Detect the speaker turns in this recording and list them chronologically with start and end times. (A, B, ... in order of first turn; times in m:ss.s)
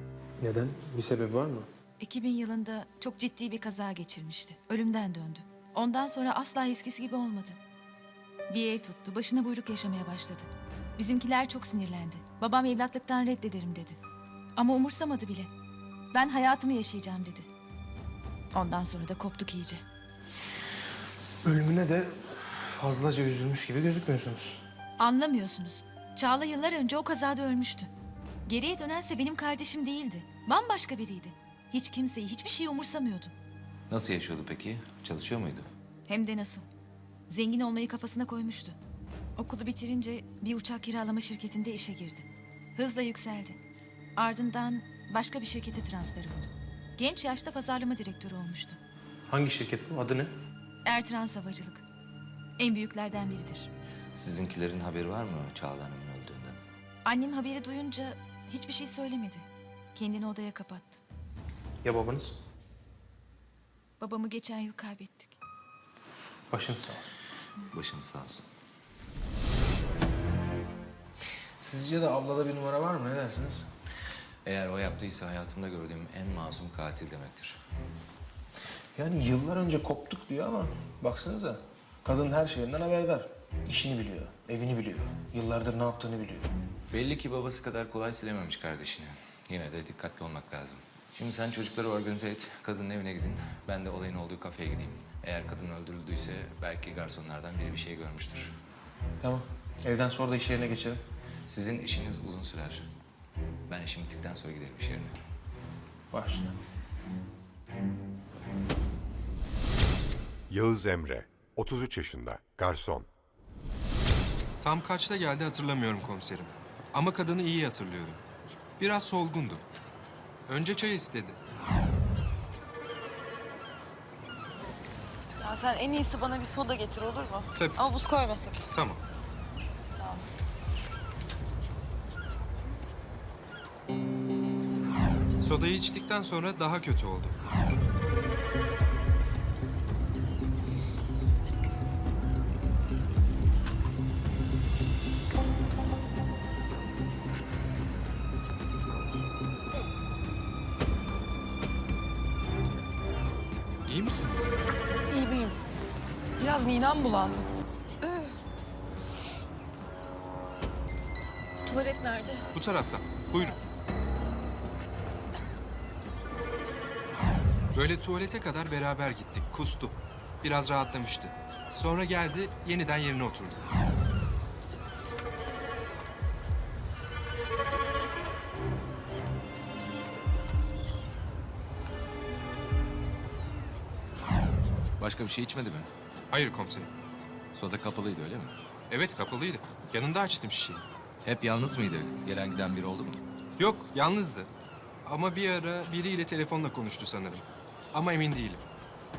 0:00.4-0:01.7 A
0:02.0-0:07.6 B
0:08.5-0:14.0 B
0:14.6-0:15.5 B
0:16.1-0:17.5 B
0:18.5-0:19.8 B
0:21.4-0:24.6 A
0:25.0-0:27.9 B
0:28.5-0:33.3 B
0:33.9-0:35.7 C
0:36.1-0:36.7 B
0:37.3-0:38.8 B
0:39.4-0:43.6 B
0:44.2-0:48.8 B
0:49.3-0:50.3 A
0:50.8-0:51.8 B
0:52.6-0:53.7 B
0:54.2-0:56.6 C
0:57.0-1:01.0 B
1:01.8-1:02.3 A
1:04.0-1:05.4 B
1:06.5-1:07.1 A
1:07.7-1:08.4 C
1:11.6-1:13.7 A
1:14.4-1:17.6 C
1:19.0-1:26.5 A
1:26.9-1:38.6 C
1:39.2-1:41.0 A
1:41.5-1:42.8 C
1:43.7-1:45.2 C
1:46.1-1:46.6 A
1:50.5-1:53.1 D
1:54.6-1:58.2 E
1:58.8-1:59.6 E
2:00.5-2:01.4 E
2:05.4-2:08.7 F
2:08.7-2:09.0 E
2:09.8-2:10.2 F
2:15.4-2:17.4 E
2:33.9-2:34.5 E
2:35.1-2:35.6 F
2:36.4-2:37.4 F
2:41.6-2:42.4 F
2:42.6-2:43.5 E
2:47.8-2:53.6 E
3:05.0-3:05.9 C
3:06.3-3:06.9 E
3:07.5-3:08.5 C
3:08.9-3:10.8 E
3:11.2-3:13.2 C
3:13.6-3:14.5 E
3:15.0-3:18.6 E